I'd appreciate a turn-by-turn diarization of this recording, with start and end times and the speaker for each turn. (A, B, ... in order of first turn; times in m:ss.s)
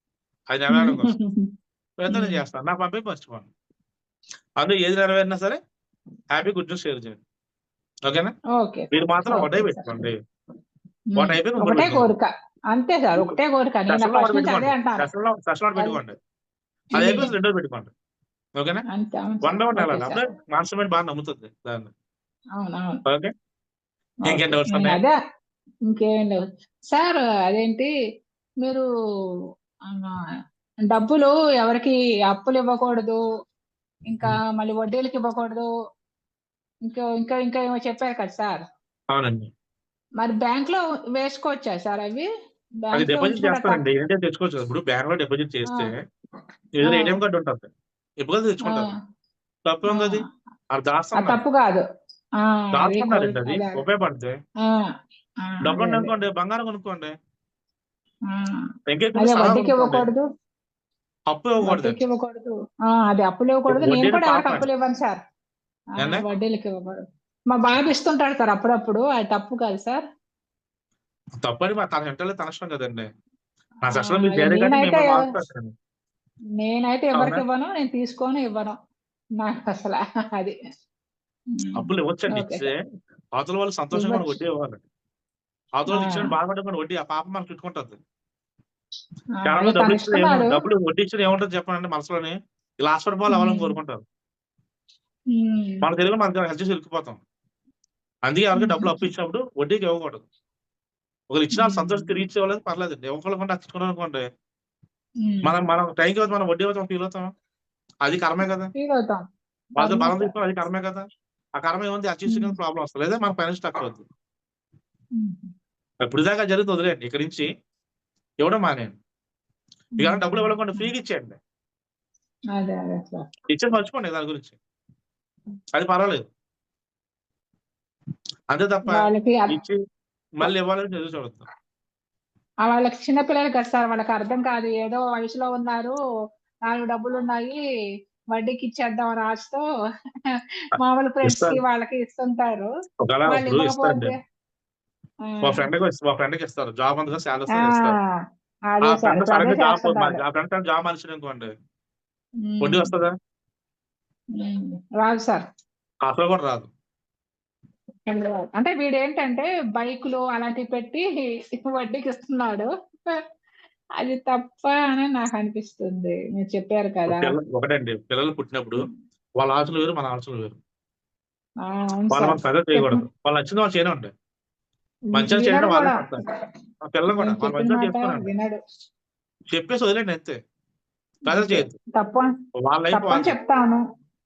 0:00.5-0:01.1 A
0:00.7-0:01.5 B
0:02.0-0:03.5 A
0:02.1-0:02.4 B
0:04.6-0:05.6 A
0:06.3-0:07.2 A
0:08.1-0:08.3 A
0:08.6-0:10.0 B
0:08.9-0:10.2 A
0:11.1-0:15.1 B
0:11.2-0:12.1 A
0:13.9-0:16.2 A
0:17.0-0:17.3 B
0:17.0-0:17.9 A
0:18.6-0:18.8 A
0:18.9-0:20.2 B
0:19.4-0:21.9 A
0:22.6-0:23.0 B
0:23.1-0:23.3 A
0:24.3-0:25.0 A
0:24.3-0:25.2 B
0:25.9-0:27.9 B
0:30.9-0:33.2 B
0:34.1-0:35.7 B
0:36.9-0:38.6 B
0:39.1-0:39.5 A
0:40.2-0:42.3 B
0:42.8-0:43.8 B
0:42.9-0:46.0 A
0:46.8-0:47.7 A
0:46.8-0:47.2 B
0:48.2-0:48.9 A
0:48.6-0:48.9 B
0:49.6-0:51.4 A
0:49.9-0:50.2 B
0:51.2-0:51.8 B
0:52.7-0:53.8 B
0:52.7-0:54.4 A
0:55.5-0:56.1 B
0:55.6-0:57.1 A
0:58.3-0:58.6 B
0:58.9-1:00.1 A
0:59.2-1:00.2 B
1:01.3-1:02.0 A
1:01.7-1:05.2 B
1:03.7-1:04.6 A
1:06.0-1:07.0 B
1:07.5-1:10.0 B
1:11.4-1:13.1 A
1:13.8-1:15.7 A
1:13.9-1:15.2 B
1:16.6-1:18.8 B
1:17.1-1:17.4 A
1:19.4-1:20.5 B
1:21.6-1:22.7 B
1:21.8-1:22.8 A
1:23.4-1:24.8 A
1:23.9-1:24.4 B
1:25.8-1:28.0 A
1:26.0-1:26.3 B
1:29.4-1:30.5 B
1:29.4-1:34.0 A
1:33.3-1:33.8 B
1:35.3-1:35.8 B
1:35.8-1:37.2 A
1:38.2-1:40.2 A
1:38.5-1:39.0 B
1:41.3-1:44.2 A
1:41.5-1:42.1 B
1:45.2-1:45.5 B
1:45.4-1:47.3 A
1:48.0-1:48.7 A
1:48.8-1:49.2 B
1:49.8-1:50.3 B
1:49.8-1:51.0 A
1:51.6-1:54.0 A
1:52.3-1:52.6 B
1:55.2-1:55.5 B
1:56.0-1:57.4 A
1:58.4-1:58.9 A
2:00.0-2:00.9 B
2:00.0-2:01.4 A
2:02.6-2:03.2 B
2:03.5-2:04.6 A
2:05.7-2:06.2 A
2:08.5-2:09.8 A
2:08.8-2:09.5 B
2:10.4-2:11.4 A
2:12.6-2:15.9 B
2:16.7-2:17.6 B
2:18.3-2:19.6 B
2:20.7-2:22.7 B
2:20.8-2:21.6 A
2:23.0-2:24.1 A
2:23.3-2:24.1 B
2:25.3-2:25.7 B
2:25.4-2:28.0 A
2:27.6-2:28.1 B
2:28.7-2:30.2 B
2:28.8-2:31.5 A
2:32.4-2:32.9 B
2:32.6-2:33.1 A
2:34.4-2:35.4 B
2:36.0-2:36.7 A
2:38.1-2:41.0 B
2:41.6-2:42.7 B
2:44.0-2:47.3 B
2:47.1-2:48.9 A
2:49.4-2:50.6 A
2:51.6-2:53.0 B
2:52.1-2:54.1 A
2:55.1-2:56.3 B
2:55.1-2:56.2 A
2:56.9-2:58.3 A
2:57.1-2:58.6 B
2:59.5-3:00.4 A
3:01.3-3:01.8 A
3:01.3-3:02.3 B
3:02.6-3:03.4 A
3:02.9-3:03.8 B